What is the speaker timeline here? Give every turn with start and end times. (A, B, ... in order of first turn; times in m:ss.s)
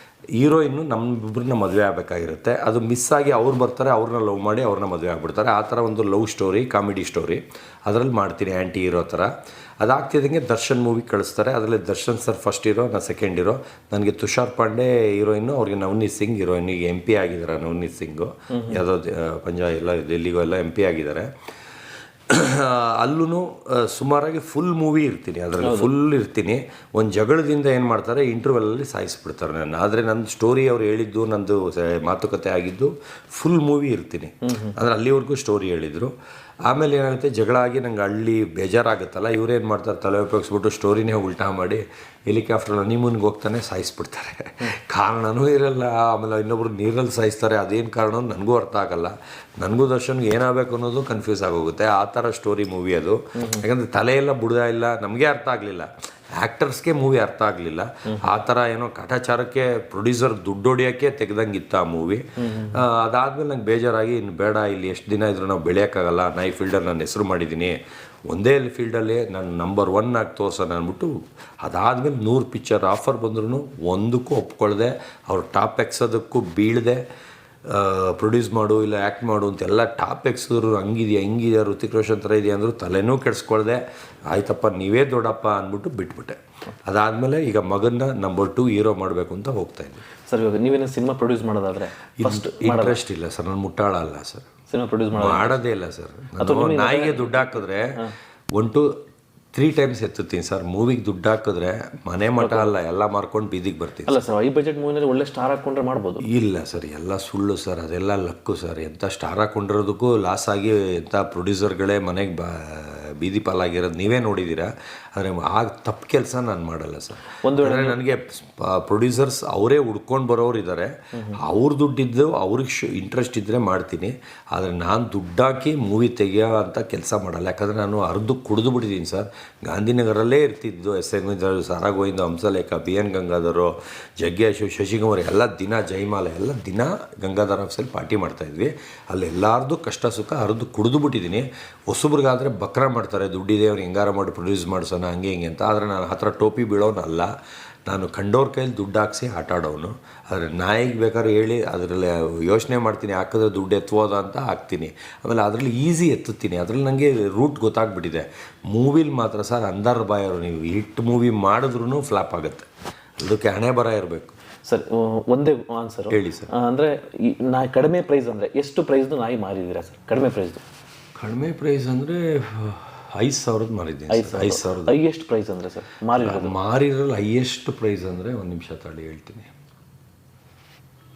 0:00.4-0:09.3 A
0:09.8-0:21.3 A
0:18.5-0:18.8 B
0:22.3-0:36.1 A
0:25.6-0:25.9 B
0:34.4-0:34.8 B
0:36.7-1:07.8 A
0:53.4-0:53.6 B
1:02.4-1:02.8 B
1:08.3-1:17.0 A
1:17.6-1:30.0 A
1:30.2-1:33.0 B
1:32.2-1:34.5 A
1:34.7-1:35.6 B
1:35.1-1:38.0 A
1:36.4-1:38.1 B
1:38.5-1:38.9 A
1:39.5-1:44.2 A
1:42.4-1:42.7 B
1:44.0-1:46.2 B
1:46.2-2:27.3 A
1:57.4-1:58.0 B
2:01.1-2:01.4 B
2:27.8-2:42.7 A
2:43.2-2:44.3 A
2:44.6-2:50.6 B
2:46.1-2:46.5 A
2:51.2-2:55.0 A
2:54.1-2:56.6 B
2:56.2-2:59.5 A